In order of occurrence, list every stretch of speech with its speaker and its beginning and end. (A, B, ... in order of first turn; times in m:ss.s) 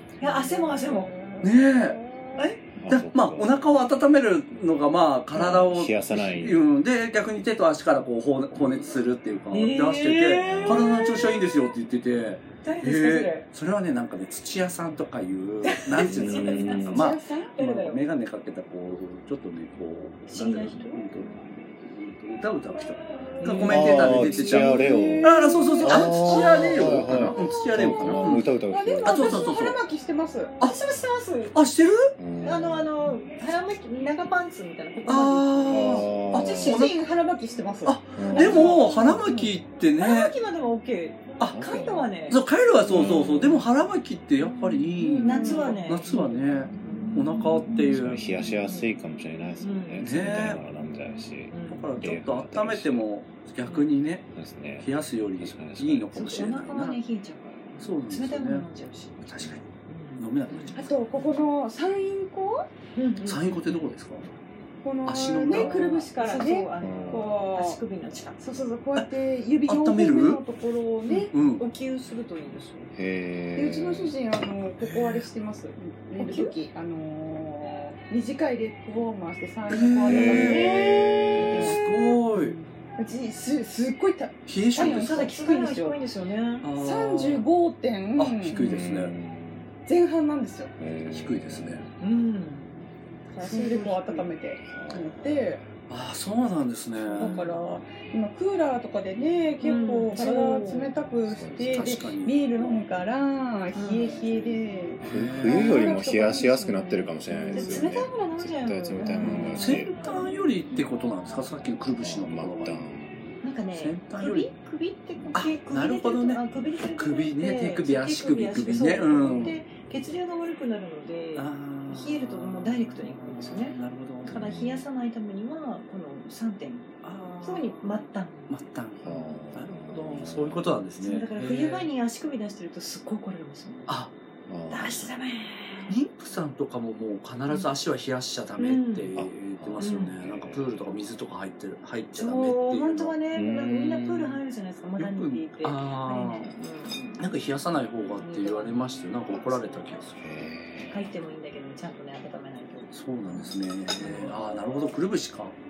0:00.2-0:01.1 A
0:00.2-0:01.5 B
0:01.4-0:28.5 C
0:02.8-0:03.6 D
0:05.3-0:06.6 D
0:09.5-0:11.7 A
0:10.4-0:10.9 D
0:12.6-0:13.5 A
0:15.6-0:18.0 A
0:16.0-0:17.1 D
0:16.9-0:17.5 B
0:20.3-0:21.1 A
0:23.4-0:26.2 A
0:23.7-0:29.4 D
0:24.3-0:30.5 B
0:29.0-0:29.8 C
0:30.6-0:31.6 A
0:31.5-0:32.1 C
0:32.2-0:32.9 D
0:32.4-0:36.5 A
0:35.1-0:37.0 C
0:35.7-0:36.8 D
0:36.4-0:38.9 B
0:37.8-0:40.4 C
0:38.2-0:38.8 D
0:38.3-0:42.4 A
0:41.4-0:42.1 D
0:42.3-0:48.2 C
0:42.8-0:43.6 D
0:45.0-0:45.8 B
0:45.2-0:47.2 A
0:47.9-0:53.1 D
0:49.6-0:50.4 A
0:50.0-0:50.6 C
0:51.5-0:51.9 A
0:51.7-0:57.0 C
0:54.4-0:54.9 D
0:55.4-0:56.5 D
0:56.1-0:59.2 A
0:57.8-0:58.7 C
0:59.2-0:59.7 C
0:59.9-1:01.2 A
1:00.2-1:00.8 C
1:00.8-1:02.7 B
1:03.0-1:03.9 A
1:03.2-1:04.2 C
1:04.8-1:07.8 B
1:05.0-1:05.9 C
1:05.5-1:08.4 A
1:06.8-1:07.4 D
1:08.4-1:11.3 B
1:09.6-1:10.4 C
1:11.1-1:12.9 A
1:11.3-1:11.6 C
1:13.0-1:14.2 D
1:13.6-1:26.0 B
1:14.8-1:15.3 C
1:16.2-1:16.5 A
1:19.7-1:20.7 C
1:20.1-1:21.8 D
1:20.4-1:21.4 A
1:21.6-1:22.6 C
1:24.5-1:25.3 C
1:24.7-1:26.7 A
1:26.6-1:27.5 C
1:26.8-1:28.6 B
1:28.2-1:29.2 C
1:28.5-1:28.9 A
1:28.6-1:29.7 D
1:29.9-1:30.7 B
1:30.8-1:31.9 D
1:31.1-1:31.8 C
1:32.0-1:32.8 A
1:33.3-1:35.6 B
1:33.4-1:34.3 A
1:34.7-1:35.5 D
1:35.9-1:37.4 C
1:37.0-1:47.9 B
1:37.2-1:37.6 A
1:39.6-1:40.9 A
1:41.3-1:41.9 D
1:41.7-1:42.8 C
1:43.7-1:44.2 A
1:45.0-1:45.9 C
1:45.0-1:49.9 D
1:47.5-1:50.3 A
1:49.0-1:49.6 B
1:49.1-1:52.8 C
1:51.9-1:53.4 D
1:53.4-2:08.6 A
1:53.8-1:54.5 C
1:55.3-1:59.6 C
2:01.4-2:04.6 C
2:04.3-2:04.6 D
2:07.0-2:11.9 C
2:09.0-2:10.8 D
2:11.0-2:14.0 A
2:13.9-2:14.1 C
2:14.5-2:15.1 D
2:14.7-2:16.0 A
2:15.9-2:23.2 C
2:18.6-2:19.1 A
2:19.2-2:20.8 D
2:19.8-2:20.2 A
2:22.2-2:27.3 A
2:23.3-2:23.9 D
2:23.8-2:24.4 C
2:25.0-2:26.5 C
2:27.2-2:30.6 C
2:28.2-2:28.8 A
2:29.3-2:30.0 A
2:30.2-2:30.9 D
2:30.9-2:34.4 A
2:32.9-2:35.6 C